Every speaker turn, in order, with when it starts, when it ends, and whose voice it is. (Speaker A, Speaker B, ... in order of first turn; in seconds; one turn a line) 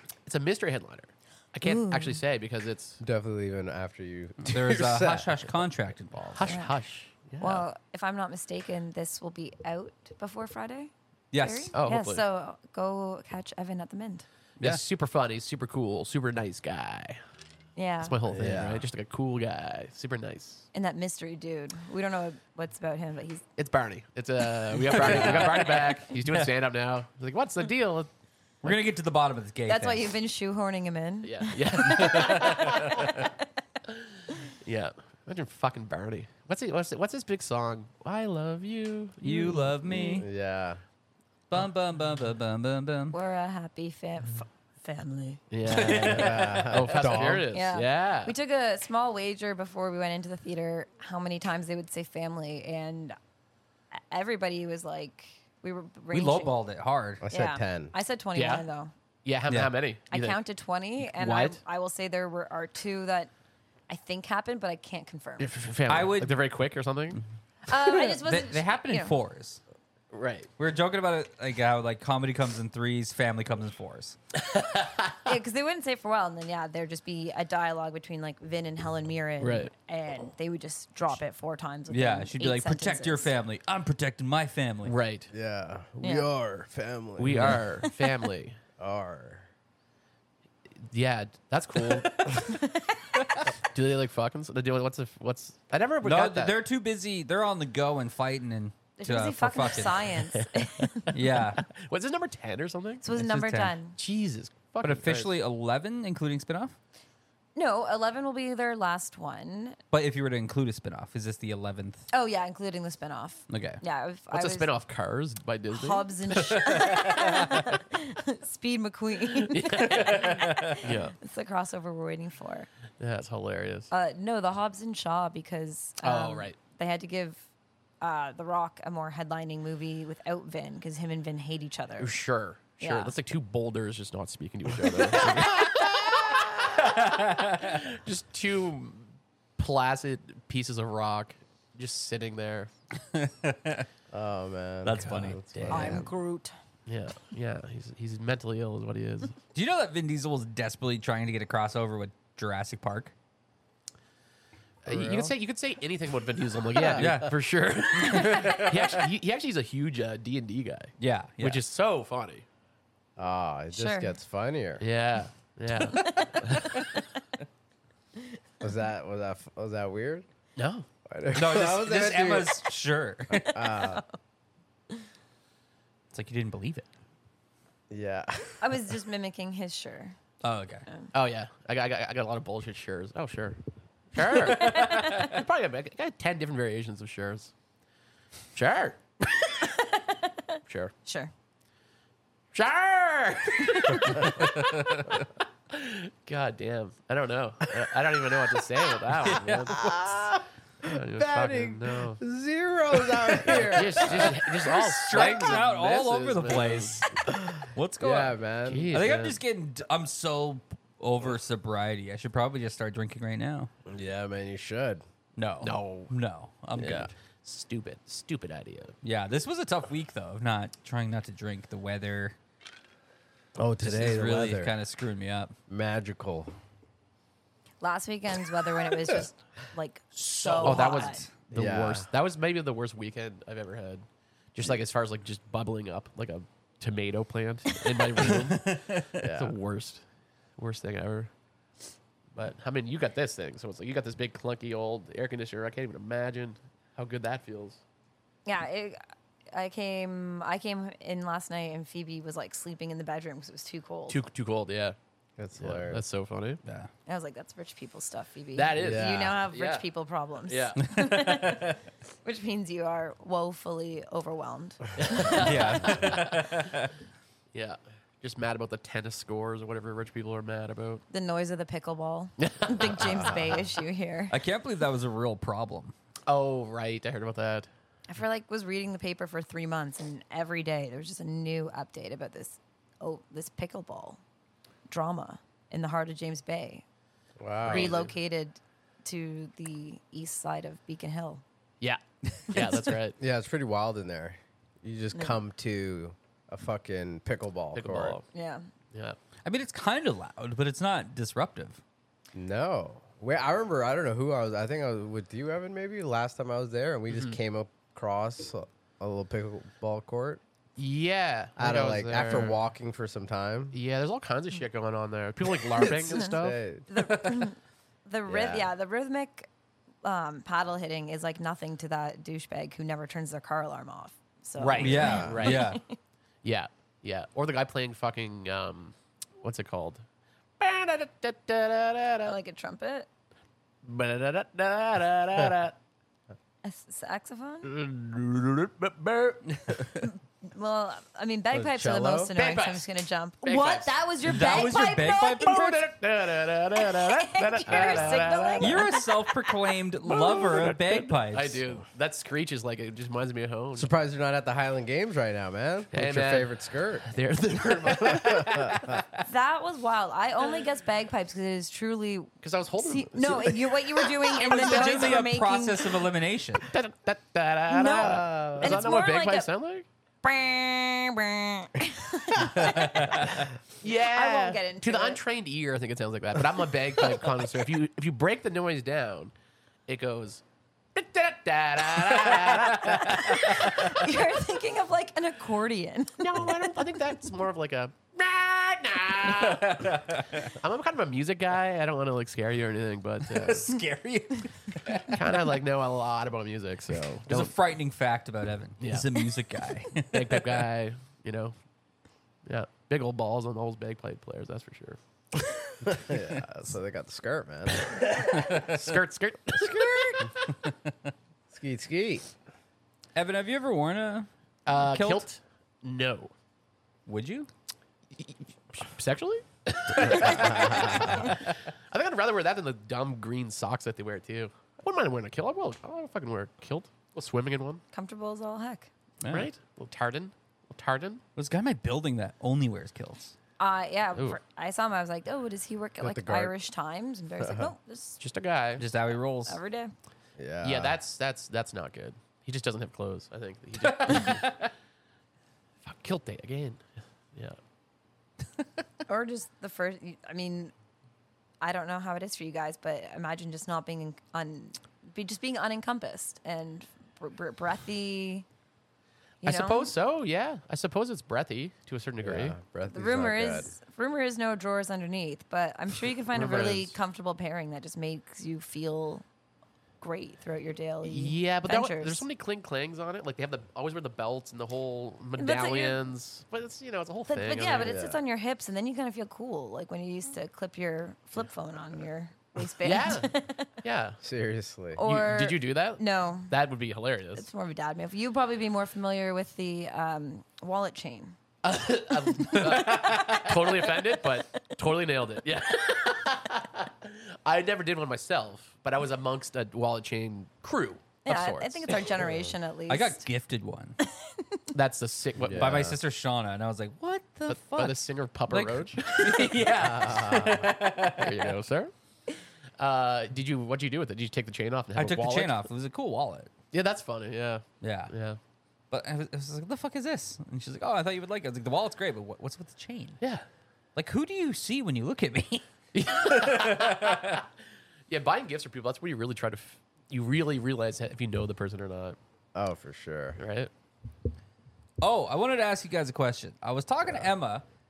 Speaker A: 0.2-3.0
Speaker B: 1.6-2.2
Speaker C: 3.0-5.3
Speaker D: 4.4-6.6
Speaker A: 6.3-7.6
Speaker B: 6.4-6.7
Speaker B: 7.4-14.2
Speaker D: 11.3-11.7
Speaker A: 11.7-12.2
Speaker A: 14.6-17.2
Speaker B: 17.8-18.1
Speaker A: 18.0-20.6
Speaker C: 18.3-18.9
Speaker B: 20.7-23.4
Speaker A: 23.6-28.1
Speaker D: 24.8-26.4
Speaker D: 28.6-30.1
Speaker B: 29.7-33.4
Speaker A: 31.2-33.3
Speaker D: 31.9-32.5
Speaker A: 33.9-39.8
Speaker D: 39.2-40.3
Speaker C: 39.9-40.8
Speaker D: 41.5-43.1
Speaker B: 43.1-45.4
Speaker A: 45.5-48.3
Speaker D: 45.6-47.0
Speaker C: 45.9-47.5
Speaker B: 47.5-53.2
Speaker B: 53.9-56.5
Speaker D: 56.1-57.2
Speaker C: 57.2-57.9
Speaker B: 57.3-58.9
Speaker A: 58.3-58.6
Speaker A: 59.2-60.4
Speaker D: 59.5-59.7
Speaker B: 60.1-63.3
Speaker A: 61.0-61.6
Speaker B: 63.9-65.5
Speaker A: 65.4-67.2
Speaker D: 65.9-66.4
Speaker B: 67.7-69.1
Speaker D: 67.9-69.6
Speaker A: 70.1-70.5
Speaker D: 70.6-74.2
Speaker A: 74.4-75.2
Speaker B: 75.2-83.3
Speaker A: 79.4-79.7
Speaker D: 81.9-84.9
Speaker A: 84.8-85.3
Speaker C: 85.3-87.7
Speaker B: 86.0-86.3
Speaker A: 87.2-88.6
Speaker D: 87.3-87.8
Speaker C: 88.8-89.5
Speaker A: 90.9-92.5
Speaker B: 92.4-93.1
Speaker A: 93.6-96.5
Speaker D: 96.0-100.2
Speaker B: 99.0-101.2
Speaker A: 100.3-101.1
Speaker D: 101.1-101.6
Speaker A: 101.6-103.0
Speaker B: 103.0-104.0
Speaker D: 103.1-103.7
Speaker A: 104.0-105.3
Speaker D: 104.8-106.7
Speaker B: 107.5-109.8
Speaker D: 109.9-112.1
Speaker B: 112.1-114.7
Speaker D: 113.5-113.8
Speaker A: 114.3-117.1
Speaker B: 115.7-122.7
Speaker D: 116.7-117.6
Speaker A: 119.3-121.1
Speaker D: 119.8-120.9
Speaker A: 123.0-123.9
Speaker B: 123.9-127.5
Speaker A: 126.0-126.6
Speaker B: 128.0-132.2
Speaker A: 132.0-142.7
Speaker B: 132.8-133.1
Speaker D: 136.8-137.7
Speaker D: 143.0-143.9
Speaker C: 144.1-146.1
Speaker D: 144.8-146.1
Speaker B: 145.7-146.5
Speaker A: 146.8-149.4
Speaker D: 149.5-153.1
Speaker A: 154.8-162.4
Speaker C: 154.8-155.3
Speaker C: 156.8-157.2
Speaker D: 156.8-157.4
Speaker D: 157.9-159.0
Speaker D: 161.0-161.6
Speaker C: 163.2-164.8
Speaker B: 163.7-164.1
Speaker A: 164.8-166.9
Speaker C: 168.6-170.2
Speaker A: 170.6-170.8
Speaker C: 171.1-172.6
Speaker D: 171.3-173.7
Speaker C: 173.3-174.0
Speaker B: 173.8-174.0
Speaker D: 176.1-176.9
Speaker C: 177.9-178.7
Speaker B: 178.6-180.2
Speaker D: 180.4-180.8
Speaker A: 181.1-183.6
Speaker A: 184.1-187.5
Speaker D: 184.2-185.4
Speaker A: 188.5-189.0
Speaker B: 189.6-191.3
Speaker A: 190.7-190.9
Speaker A: 192.5-202.2
Speaker D: 194.2-195.0
Speaker D: 199.2-199.7
Speaker C: 199.7-204.7
Speaker A: 203.5-207.1
Speaker D: 203.5-208.4
Speaker C: 207.3-208.9
Speaker A: 208.6-209.4
Speaker D: 208.9-213.7
Speaker C: 213.9-215.0
Speaker D: 215.4-217.1
Speaker A: 215.6-216.1
Speaker C: 216.8-217.1
Speaker A: 217.4-218.9
Speaker D: 219.0-222.3
Speaker C: 223.6-224.7
Speaker D: 223.8-225.5
Speaker C: 225.7-226.5
Speaker B: 227.8-231.2
Speaker D: 230.1-231.3
Speaker A: 230.6-240.0
Speaker C: 231.5-232.1
Speaker D: 238.1-239.2
Speaker C: 239.2-239.5
Speaker A: 240.6-241.3
Speaker A: 242.3-247.8
Speaker B: 248.4-254.2
Speaker A: 254.1-254.9
Speaker C: 255.4-256.0
Speaker A: 255.6-256.6
Speaker D: 256.6-256.9
Speaker B: 257.1-265.8
Speaker A: 258.6-259.9
Speaker C: 258.8-259.3
Speaker A: 260.4-260.9
Speaker D: 260.8-261.8
Speaker A: 265.0-266.4
Speaker D: 265.3-266.9
Speaker A: 267.5-271.0
Speaker B: 271.1-274.3
Speaker A: 272.4-273.6
Speaker D: 274.3-275.9
Speaker A: 276.3-277.7
Speaker B: 278.1-284.2
Speaker B: 284.9-286.8
Speaker C: 287.4-288.0
Speaker A: 287.6-288.1
Speaker B: 287.7-291.4
Speaker A: 291.8-293.2
Speaker C: 293.2-298.1
Speaker B: 295.1-295.4
Speaker A: 297.7-298.2
Speaker B: 298.3-298.6
Speaker D: 299.4-301.8
Speaker C: 302.3-310.4
Speaker A: 307.1-307.4
Speaker A: 310.8-312.6
Speaker C: 311.6-313.8
Speaker A: 313.7-316.6
Speaker C: 315.8-316.9
Speaker B: 316.0-316.3
Speaker B: 316.9-319.5
Speaker C: 318.3-318.7
Speaker B: 320.0-326.0
Speaker A: 324.6-325.8
Speaker D: 324.8-325.8
Speaker C: 325.0-325.4
Speaker A: 326.4-330.0
Speaker A: 330.6-332.4
Speaker B: 332.2-333.1
Speaker A: 333.8-335.7
Speaker B: 336.6-337.7
Speaker A: 337.6-339.8
Speaker D: 339.7-340.0
Speaker B: 340.0-345.4
Speaker C: 341.5-342.3
Speaker A: 342.4-342.9
Speaker A: 343.4-343.9
Speaker D: 344.2-345.9
Speaker A: 345.3-348.9
Speaker B: 346.8-349.1
Speaker D: 348.6-351.6
Speaker A: 350.1-353.9
Speaker C: 353.8-357.1
Speaker A: 355.9-356.5
Speaker A: 357.0-359.0
Speaker C: 357.9-358.8
Speaker B: 359.2-365.9
Speaker A: 362.4-365.2
Speaker D: 364.4-366.7
Speaker A: 366.6-369.9
Speaker B: 367.7-369.5
Speaker C: 367.9-368.9
Speaker B: 370.2-373.2
Speaker D: 372.6-373.5
Speaker A: 373.8-379.3
Speaker B: 373.9-375.2
Speaker A: 379.9-380.4
Speaker A: 380.9-384.1
Speaker D: 382.0-383.7
Speaker B: 383.2-386.7
Speaker A: 386.2-393.7
Speaker D: 389.3-390.5
Speaker D: 393.2-395.5
Speaker A: 395.1-397.5
Speaker D: 397.3-400.7
Speaker A: 398.8-399.1
Speaker A: 400.1-401.5
Speaker A: 402.4-405.0
Speaker C: 405.8-408.0
Speaker D: 407.9-408.8
Speaker A: 408.3-410.2
Speaker C: 411.5-412.2
Speaker D: 413.1-415.2
Speaker A: 414.6-416.3
Speaker D: 417.1-417.5
Speaker A: 418.1-427.8
Speaker C: 420.0-421.1
Speaker D: 420.6-421.3
Speaker B: 427.9-428.9
Speaker D: 429.2-429.5
Speaker A: 429.3-431.2
Speaker D: 431.4-433.3
Speaker B: 433.6-438.2
Speaker C: 436.0-436.5
Speaker C: 437.4-437.7
Speaker A: 438.2-438.8
Speaker D: 438.8-439.6
Speaker B: 439.5-439.9
Speaker C: 440.4-441.0
Speaker A: 440.6-444.7
Speaker D: 443.8-444.6
Speaker A: 445.8-447.6
Speaker B: 449.1-450.7
Speaker B: 451.6-458.4
Speaker B: 459.4-459.9
Speaker A: 459.4-462.6
Speaker C: 462.2-463.7
Speaker B: 462.9-469.2
Speaker A: 466.3-466.9
Speaker B: 470.0-472.2
Speaker A: 471.0-478.0
Speaker B: 475.4-476.1
Speaker B: 477.3-483.7
Speaker C: 477.8-478.2
Speaker A: 482.8-484.2
Speaker C: 484.2-485.0
Speaker B: 484.9-486.5
Speaker A: 485.0-487.4
Speaker B: 487.4-491.3
Speaker A: 491.6-502.1
Speaker D: 492.5-493.4
Speaker B: 501.2-503.2
Speaker C: 502.2-502.5
Speaker D: 502.9-504.0
Speaker B: 504.0-504.6
Speaker A: 504.7-505.9
Speaker C: 505.4-506.0
Speaker D: 505.5-511.6
Speaker A: 507.5-509.5
Speaker C: 509.7-510.7
Speaker A: 511.0-511.9
Speaker A: 512.8-515.6
Speaker D: 514.9-516.5
Speaker A: 516.7-518.4
Speaker D: 517.8-518.1
Speaker D: 518.9-523.2
Speaker D: 524.0-527.4
Speaker A: 525.9-527.4
Speaker A: 528.1-532.2
Speaker C: 532.5-533.4
Speaker A: 533.4-533.7
Speaker D: 535.0-537.6
Speaker C: 537.0-537.3